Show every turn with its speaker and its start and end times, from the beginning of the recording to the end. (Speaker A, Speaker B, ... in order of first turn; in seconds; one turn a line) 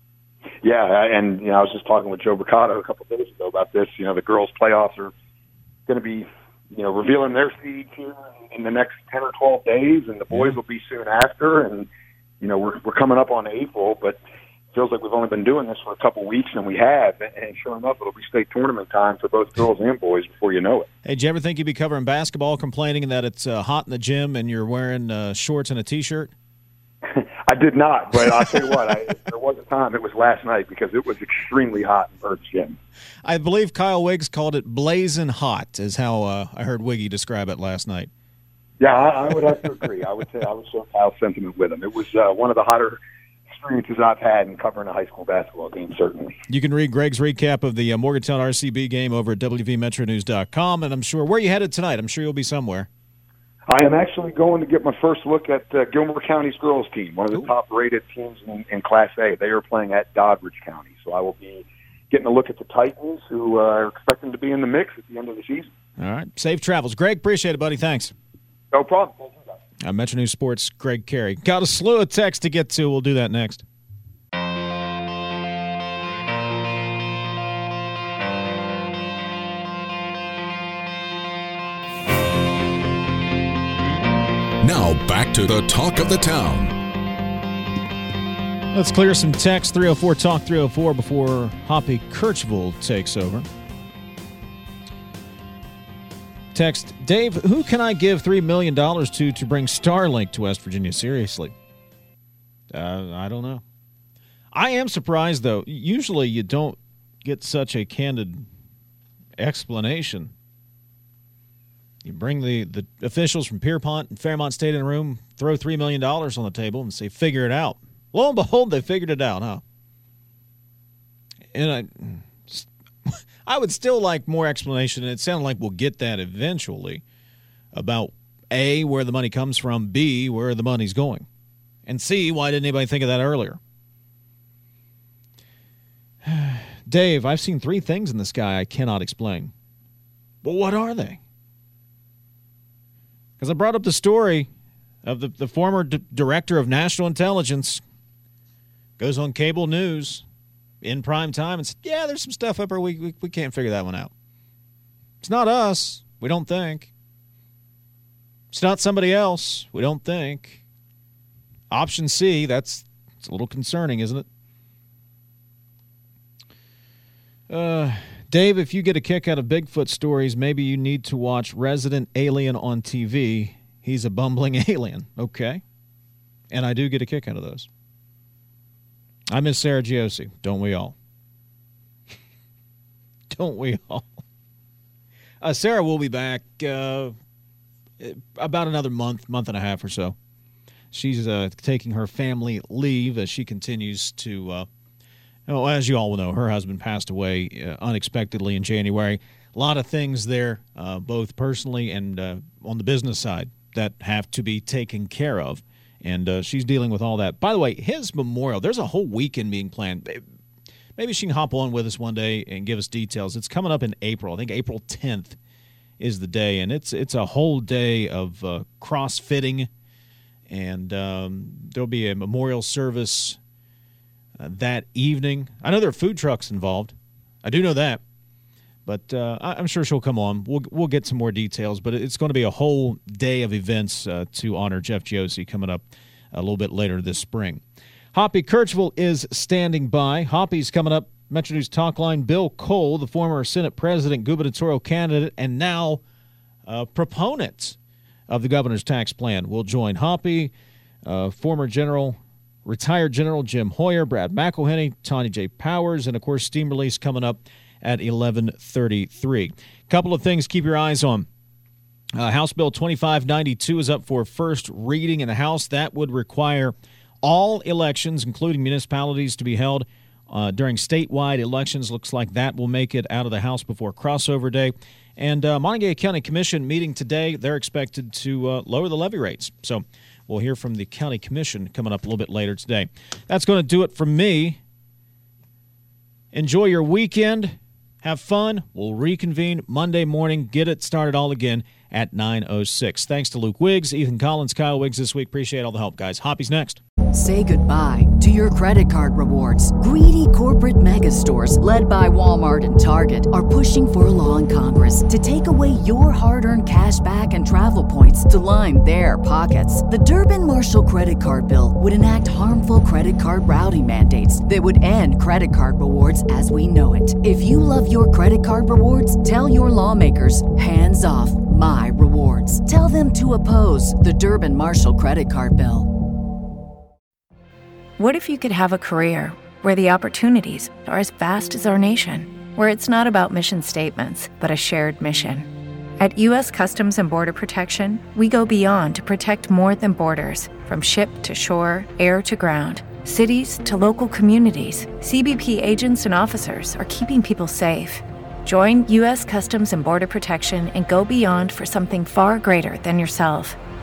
Speaker A: 0.6-5.1
Speaker A: 5.9-11.9
Speaker A: 12.4-14.2
Speaker A: 14.7-20.9
Speaker B: 21.0-26.3
Speaker A: 27.1-32.8
Speaker B: 33.2-38.1
Speaker A: 38.8-46.4
Speaker B: 46.5-52.9
Speaker A: 53.7-65.7
Speaker B: 66.0-68.1
Speaker A: 68.7-69.5
Speaker B: 69.8-73.6
Speaker C: 84.6-86.8
Speaker B: 88.7-93.5
Speaker B: 96.5-101.5
Speaker B: 102.7-103.6
Speaker B: 104.5-108.5
Speaker B: 109.4-110.3
Speaker B: 112.0-119.6
Speaker B: 121.5-127.0
Speaker B: 127.7-131.3
Speaker B: 131.8-133.6
Speaker B: 136.2-139.5
Speaker B: 140.4-141.2
Speaker B: 143.4-144.5
Speaker B: 145.0-147.8
Speaker B: 149.0-150.2
Speaker B: 150.8-154.1
Speaker B: 155.2-156.9
Speaker B: 158.5-160.6
Speaker B: 161.7-164.2
Speaker B: 167.5-175.6
Speaker B: 176.5-177.7
Speaker B: 179.3-180.9
Speaker B: 183.3-184.2
Speaker B: 185.4-187.2
Speaker B: 188.0-190.1
Speaker B: 190.9-194.7
Speaker B: 195.5-210.2
Speaker B: 211.0-215.4
Speaker B: 216.0-219.7
Speaker B: 220.5-223.4
Speaker B: 224.4-228.0
Speaker B: 228.8-237.6
Speaker B: 238.1-246.0
Speaker B: 246.7-247.8
Speaker B: 248.3-250.5
Speaker B: 251.0-261.3
Speaker B: 262.1-284.6
Speaker B: 286.3-296.8
Speaker D: 297.1-325.9
Speaker E: 328.0-353.6